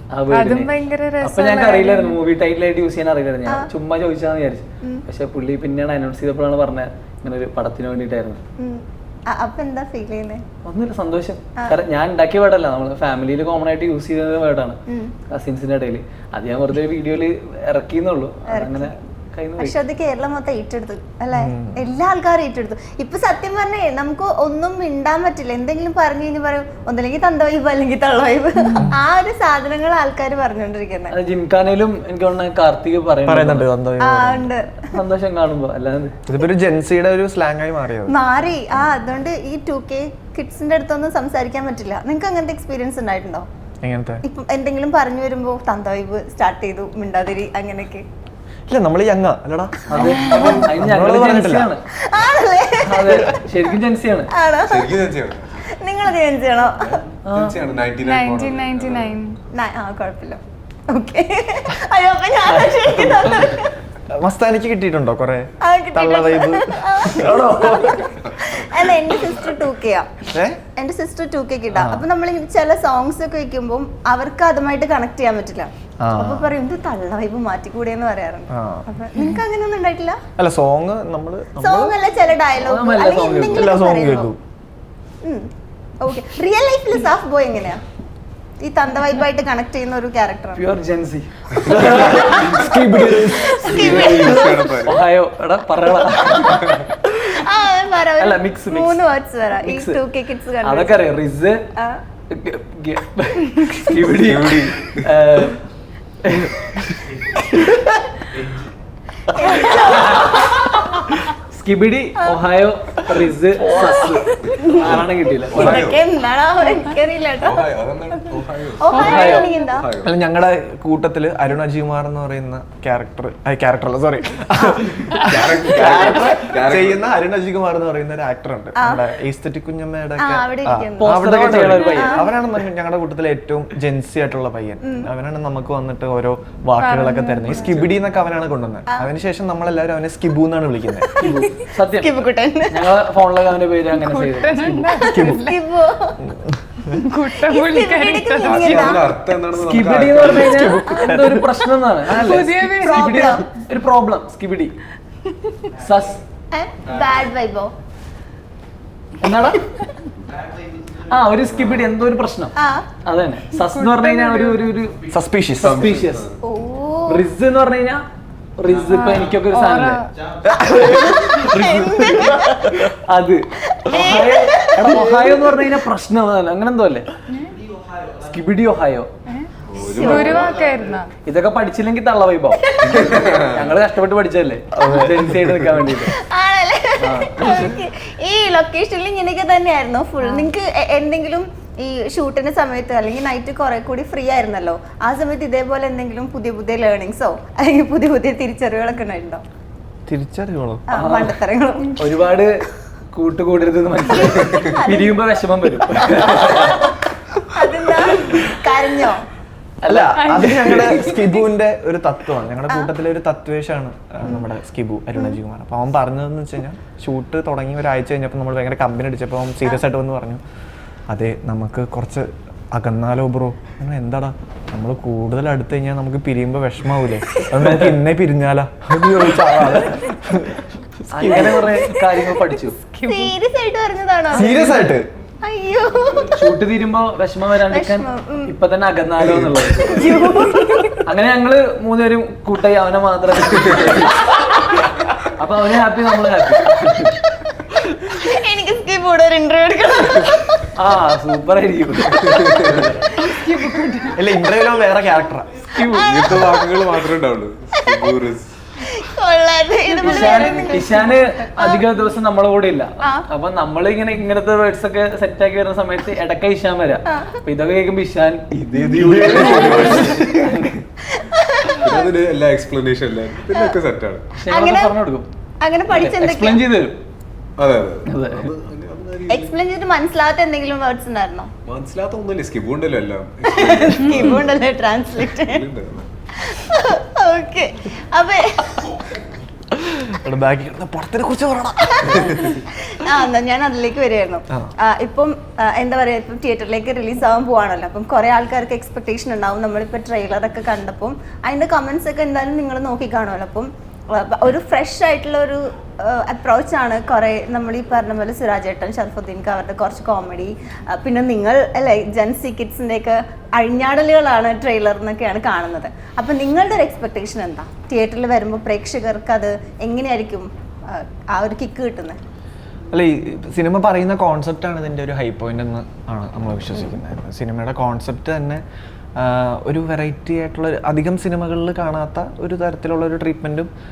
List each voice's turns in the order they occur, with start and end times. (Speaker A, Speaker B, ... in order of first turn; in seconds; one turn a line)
Speaker A: 0.1-0.7
Speaker B: 0.3-2.0
Speaker A: 1.2-8.4
Speaker C: 3.4-3.7
Speaker C: 8.6-10.4
Speaker A: 10.6-14.8
Speaker C: 14.9-15.1
Speaker A: 15.3-19.8
Speaker C: 18.5-18.9
Speaker C: 19.6-31.1
Speaker D: 21.4-21.8
Speaker A: 31.1-33.7
Speaker D: 33.2-34.5
Speaker C: 34.0-34.9
Speaker A: 34.9-36.1
Speaker D: 36.3-38.1
Speaker C: 38.1-43.5
Speaker D: 43.8-44.2
Speaker C: 44.2-48.0
Speaker D: 48.7-51.7
Speaker A: 49.9-51.8
Speaker C: 50.0-50.6
Speaker C: 52.0-53.3
Speaker A: 52.9-54.3
Speaker C: 54.3-54.9
Speaker E: 54.6-55.7
Speaker C: 55.7-57.0
Speaker E: 56.8-59.2
Speaker A: 57.3-57.5
Speaker B: 58.0-59.3
Speaker C: 59.5-63.7
Speaker A: 62.5-63.3
Speaker D: 64.2-68.1
Speaker C: 65.6-70.1
Speaker D: 70.2-70.6
Speaker C: 70.8-80.2
Speaker D: 71.7-72.0
Speaker D: 76.0-76.5
Speaker D: 78.5-78.9
Speaker D: 80.4-81.9
Speaker C: 81.6-84.3
Speaker A: 82.6-83.7
Speaker D: 83.5-84.4
Speaker C: 86.0-87.8
Speaker C: 88.6-90.6
Speaker A: 90.5-96.9
Speaker D: 91.6-94.4
Speaker C: 92.1-92.5
Speaker E: 92.2-92.7
Speaker C: 93.3-94.7
Speaker E: 93.7-95.0
Speaker C: 97.1-101.0
Speaker A: 98.2-99.0
Speaker A: 99.6-100.0
Speaker A: 100.6-101.6
Speaker C: 101.8-102.0
Speaker A: 102.3-105.6
Speaker E: 104.0-105.0
Speaker A: 106.2-106.8
Speaker C: 109.3-111.0
Speaker A: 109.4-110.5
Speaker A: 111.5-115.8
Speaker C: 112.2-112.4
Speaker C: 113.7-115.0
Speaker E: 115.5-116.0
Speaker C: 115.5-117.7
Speaker E: 117.3-120.1
Speaker C: 118.8-119.8
Speaker B: 119.0-119.6
Speaker A: 119.0-119.5
Speaker D: 120.0-141.1
Speaker E: 125.2-127.1
Speaker C: 128.8-129.0
Speaker C: 130.2-132.4
Speaker A: 131.0-132.2
Speaker B: 136.8-137.6
Speaker C: 141.0-143.0
Speaker A: 141.2-144.9
Speaker B: 144.0-145.5
Speaker C: 145.0-146.2
Speaker D: 145.0-145.4
Speaker B: 146.9-148.9
Speaker C: 147.4-149.1
Speaker E: 148.4-150.6
Speaker A: 149.5-154.7
Speaker D: 150.3-151.5
Speaker C: 150.8-151.1
Speaker B: 152.1-153.3
Speaker C: 152.7-153.5
Speaker A: 155.8-156.2
Speaker C: 156.5-157.7
Speaker A: 159.2-159.6
Speaker A: 161.1-165.0
Speaker C: 162.5-162.9
Speaker B: 163.6-164.7
Speaker D: 165.1-165.8
Speaker A: 165.6-166.3
Speaker E: 165.6-166.4
Speaker C: 166.4-167.3
Speaker A: 167.1-168.0
Speaker A: 168.6-170.0
Speaker B: 168.9-170.1
Speaker D: 170.4-172.9
Speaker C: 170.7-172.5
Speaker A: 172.9-177.0
Speaker C: 173.7-174.9
Speaker D: 174.8-175.7
Speaker A: 178.2-179.1
Speaker E: 179.7-180.6
Speaker C: 179.7-180.4
Speaker B: 180.0-181.1
Speaker A: 181.2-182.6
Speaker C: 182.5-183.5
Speaker E: 182.8-183.8
Speaker A: 183.5-186.1
Speaker D: 184.7-185.9
Speaker C: 186.1-199.4
Speaker A: 187.0-187.6
Speaker B: 190.2-190.5
Speaker D: 200.1-200.8
Speaker C: 200.9-202.2
Speaker A: 200.9-201.3
Speaker A: 202.0-202.5
Speaker A: 203.1-206.9
Speaker C: 204.1-205.2
Speaker C: 207.5-209.2
Speaker A: 209.8-211.3
Speaker D: 209.9-220.4
Speaker C: 214.2-214.5
Speaker D: 221.1-231.7
Speaker C: 227.1-227.6
Speaker A: 227.6-227.9
Speaker C: 229.8-230.1
Speaker A: 231.1-232.8
Speaker B: 232.7-233.3
Speaker C: 233.0-234.5
Speaker D: 234.3-235.1
Speaker B: 234.4-234.9
Speaker C: 235.4-236.4
Speaker A: 236.3-240.1
Speaker C: 237.6-238.5
Speaker E: 239.2-240.2
Speaker C: 239.9-241.0
Speaker A: 241.1-244.8
Speaker A: 245.4-247.1
Speaker C: 248.1-250.7
Speaker A: 250.8-254.1
Speaker C: 252.1-252.5
Speaker E: 252.2-252.9
Speaker B: 253.3-254.0
Speaker D: 254.1-255.5
Speaker A: 255.7-256.1
Speaker C: 255.8-256.9
Speaker E: 256.1-258.5
Speaker C: 257.7-258.1
Speaker C: 258.9-261.9
Speaker B: 259.9-261.0
Speaker A: 260.0-270.8
Speaker C: 267.1-267.4
Speaker C: 268.7-270.1
Speaker E: 268.8-270.4
Speaker D: 269.0-270.1
Speaker C: 271.1-272.1
Speaker E: 271.8-274.3
Speaker C: 273.5-273.8
Speaker A: 274.4-275.3
Speaker C: 274.5-274.9
Speaker C: 275.6-276.6
Speaker A: 275.9-277.0
Speaker E: 277.6-279.5
Speaker A: 278.1-278.5
Speaker C: 279.3-281.5
Speaker E: 281.6-286.1
Speaker C: 283.4-285.6
Speaker C: 286.4-289.0
Speaker D: 289.8-292.6
Speaker C: 292.0-292.3
Speaker C: 292.8-322.2
Speaker D: 322.9-328.6
Speaker D: 329.2-333.7